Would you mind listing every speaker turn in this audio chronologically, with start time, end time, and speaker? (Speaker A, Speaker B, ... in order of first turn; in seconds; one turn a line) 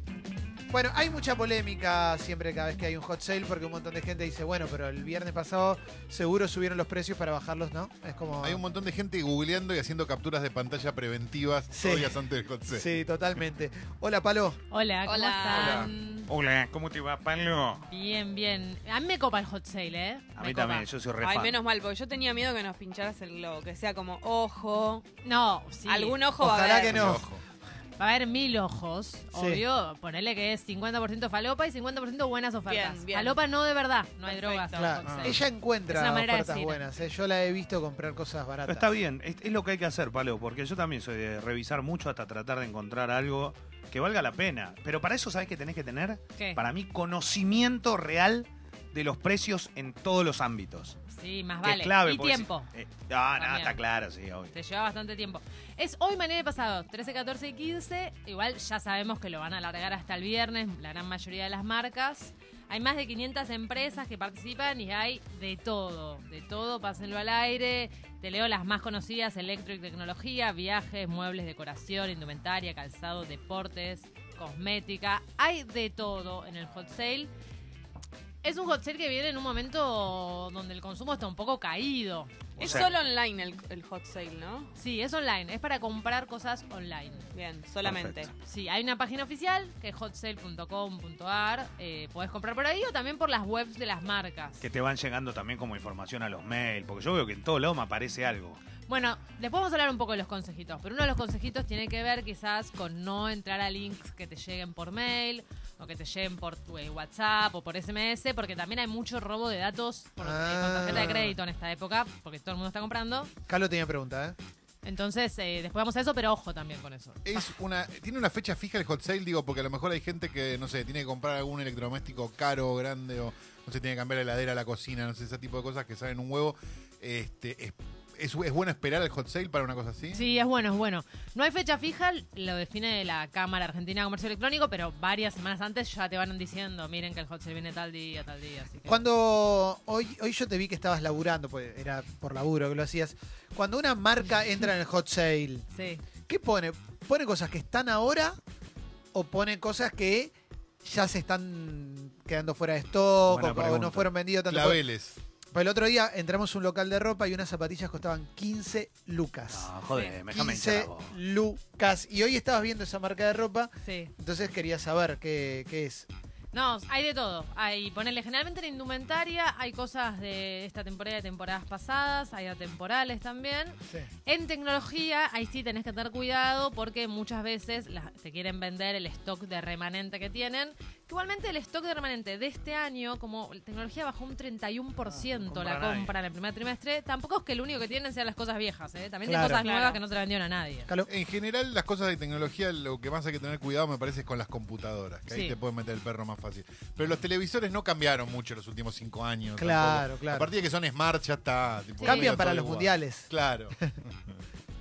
Speaker A: 0.7-8.6
Speaker B: 8.4-12.9
Speaker A: 11.7-12.2
Speaker A: 12.7-14.6
Speaker C: 14.7-16.3
Speaker D: 15.1-15.9
Speaker E: 15.5-17.8
Speaker C: 17.9-20.9
Speaker E: 20.4-21.6
Speaker D: 21.2-25.0
Speaker C: 25.2-26.2
Speaker D: 25.9-27.2
Speaker A: 26.4-27.2
Speaker B: 26.8-27.4
Speaker C: 28.0-36.8
Speaker A: 29.3-29.6
Speaker D: 32.6-33.4
Speaker D: 34.2-35.0
Speaker A: 34.8-38.9
Speaker B: 35.1-35.4
Speaker E: 38.6-51.0
Speaker C: 46.4-46.6
Speaker C: 51.1-52.7
Speaker E: 51.6-54.5
Speaker C: 53.4-53.8
Speaker C: 54.5-77.3
Speaker C: 78.4-82.9
Speaker E: 82.6-82.9
Speaker D: 82.6-84.7
Speaker C: 84.8-87.2
Speaker D: 87.3-88.3
Speaker E: 87.8-88.3
Speaker C: 88.4-94.6
Speaker E: 94.6-98.6
Speaker C: 98.9-113.3
Speaker A: 110.2-111.3
Speaker A: 113.5-114.3
Speaker C: 114.8-117.2
Speaker B: 117.2-130.2
Speaker C: 130.1-139.0
Speaker A: 138.8-145.6
Speaker C: 145.7-146.0
Speaker A: 146.3-148.4
Speaker A: 149.1-150.3
Speaker A: 150.8-154.8
Speaker E: 153.2-154.1
Speaker B: 154.5-155.2
Speaker A: 155.5-159.7
Speaker E: 159.5-161.1
Speaker A: 160.2-166.1
Speaker C: 163.8-164.1
Speaker C: 166.5-190.9
Speaker E: 185.1-186.1
Speaker A: 189.2-189.7
Speaker D: 189.5-190.0
Speaker B: 191.1-204.4
Speaker C: 195.3-195.6
Speaker A: 199.6-200.5
Speaker C: 202.0-202.3
Speaker A: 202.0-203.3